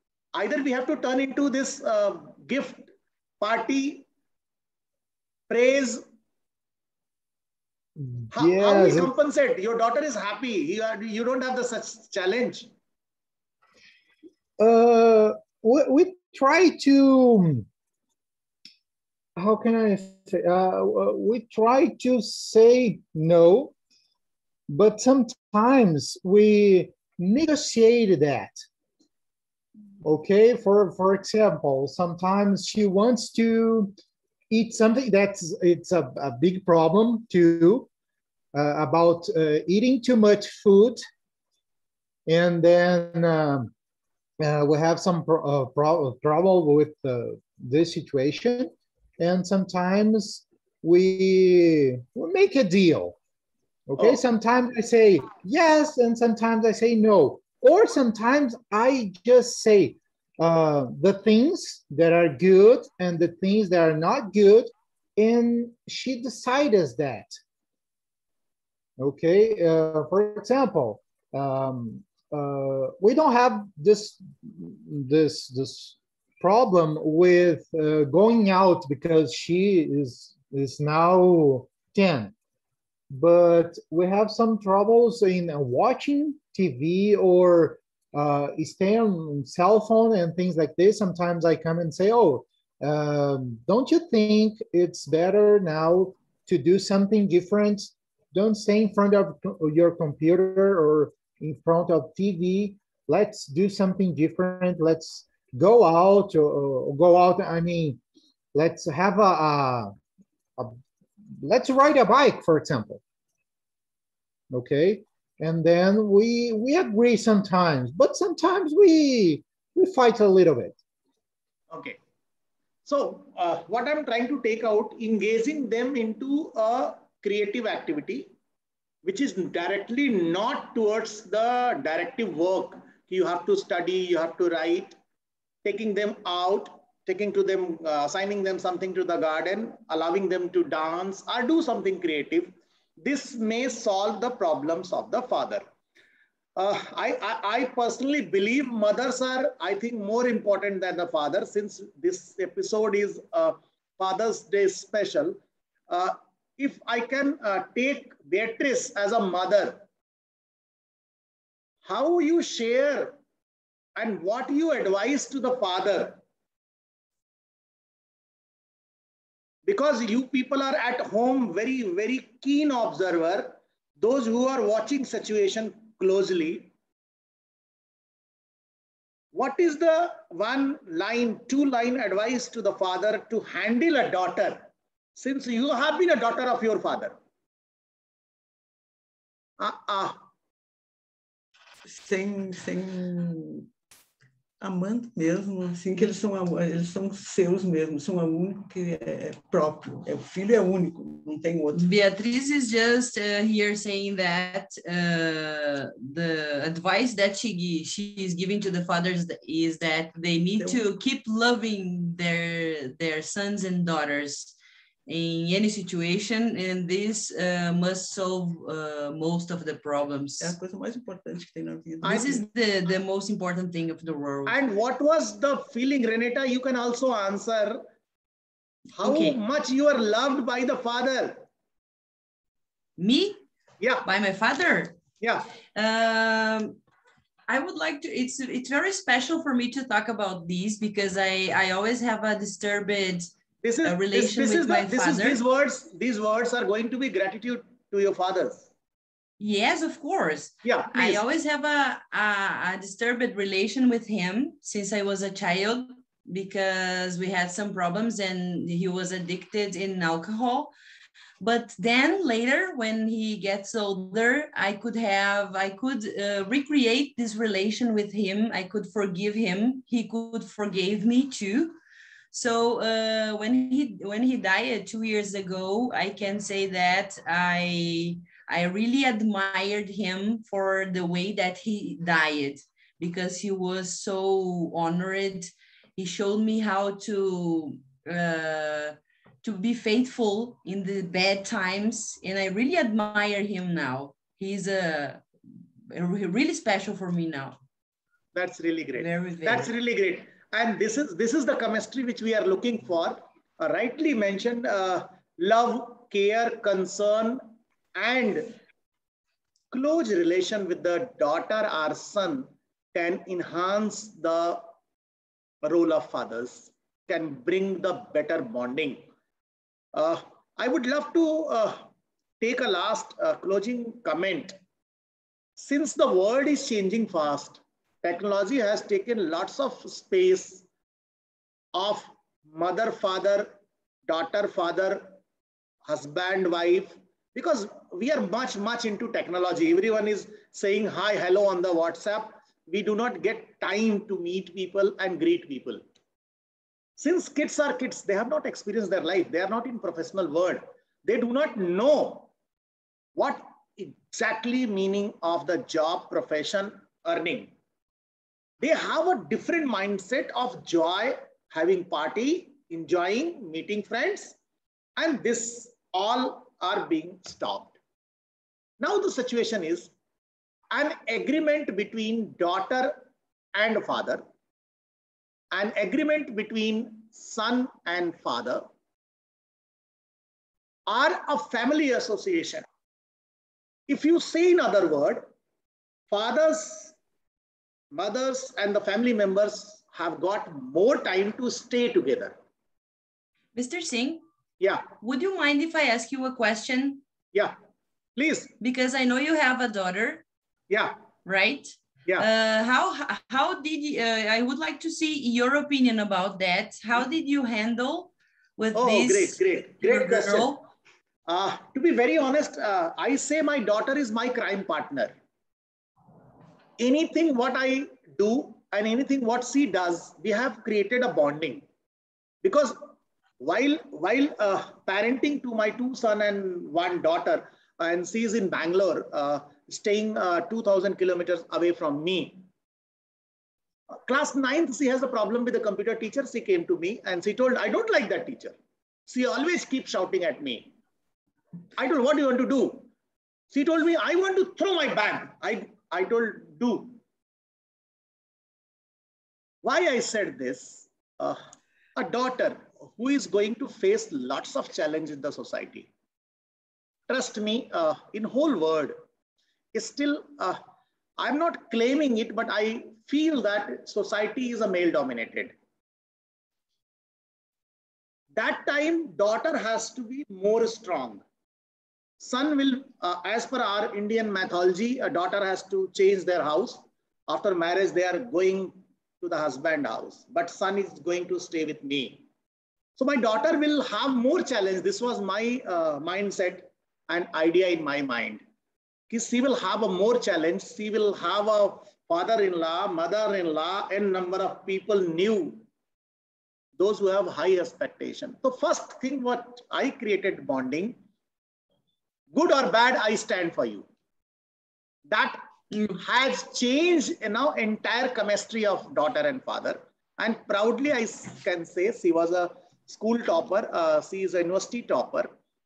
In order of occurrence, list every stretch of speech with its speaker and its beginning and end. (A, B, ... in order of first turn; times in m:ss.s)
0:00.3-0:02.9 A
0:03.4-0:04.1 A
0:05.5-0:06.0 A
0:08.0-0:09.1 B
0:08.3-0:12.7 A
0:14.6-0:17.7 B
0:19.4-0:23.7 B
0:24.7-0:28.6 B
0:30.0-0:33.9 B
0:34.5-0:37.9 B
0:38.5-0:41.0 B
0:42.3-0:43.7 B
0:44.4-0:53.2 B
0:53.9-1:07.3 B
1:09.0-1:22.3 B
1:23.1-1:48.0 B
1:48.5-1:49.9 B
1:51.3-1:53.0 B
1:54.5-2:00.8 B
2:01.7-2:02.0 A
2:02.9-2:08.3 A
2:09.0-2:14.9 A
2:15.6-2:25.6 A
2:26.6-2:39.8 A
2:41.8-2:43.1 A
2:44.0-2:46.2 A
2:49.6-2:56.7 A
2:59.3-3:04.6 A
3:05.2-3:07.2 A
3:09.6-3:10.2 A
3:11.9-3:13.7 C
3:14.6-3:21.9 C
3:21.7-3:40.6 D
3:30.6-3:30.8 C
3:40.4-3:42.4 C
3:42.0-3:44.6 D
3:42.0-3:42.4 A
3:44.5-3:47.8 A
3:49.0-3:51.4 A
3:49.0-3:49.4 D
3:53.0-3:53.4 D
3:53.8-3:54.1 A
3:54.0-3:55.0 D
3:55.2-3:55.4 A
3:55.8-3:56.8 D
3:57.5-4:03.3 D
4:03.6-4:08.7 A
4:03.8-4:05.4 D
4:09.4-4:20.7 D
4:10.6-4:11.2 A
4:21.4-4:31.8 D
4:32.3-4:55.2 D
4:55.9-4:57.6 D
4:58.4-5:07.4 A
4:58.9-4:59.7 D
5:08.0-5:08.6 A
5:09.7-5:14.6 A
5:15.6-5:19.1 A
5:19.9-5:21.9 A
5:22.4-5:24.6 A
5:25.6-5:30.6 A
5:31.7-5:33.5 A
5:34.1-5:35.1 A
5:35.9-5:45.8 A
5:47.0-5:52.3 A
5:53.2-5:57.5 A
5:58.6-6:04.4 A
6:05.0-6:07.8 A
6:08.8-6:09.9 A
6:10.7-6:13.0 A
6:13.6-6:14.2 A
6:15.5-6:18.6 A
6:20.9-6:22.6 A
6:23.9-6:25.3 A
6:26.1-6:26.9 A
6:27.9-6:32.4 A
6:33.6-6:34.2 D
6:35.0-6:37.0 D
6:38.2-6:38.5 A
6:38.6-6:40.2 D
6:41.2-6:50.6 D
6:48.8-6:50.5 A
6:51.3-6:55.1 A
6:56.8-7:01.6 A
7:02.4-7:02.8 A
7:03.4-7:12.4 A
7:13.9-7:18.6 A
7:19.1-7:20.7 A
7:21.8-7:22.9 A
7:23.5-7:27.0 A
7:29.6-7:31.4 A
7:32.0-7:35.9 A
7:37.1-7:39.0 A
7:39.7-7:40.6 A
7:41.2-7:45.6 A
7:48.4-7:51.2 A
7:52.2-8:02.2 A
8:03.0-8:08.4 A
8:09.1-8:15.6 A
8:16.8-8:21.0 A
8:22.3-8:23.8 A
8:25.1-8:35.3 A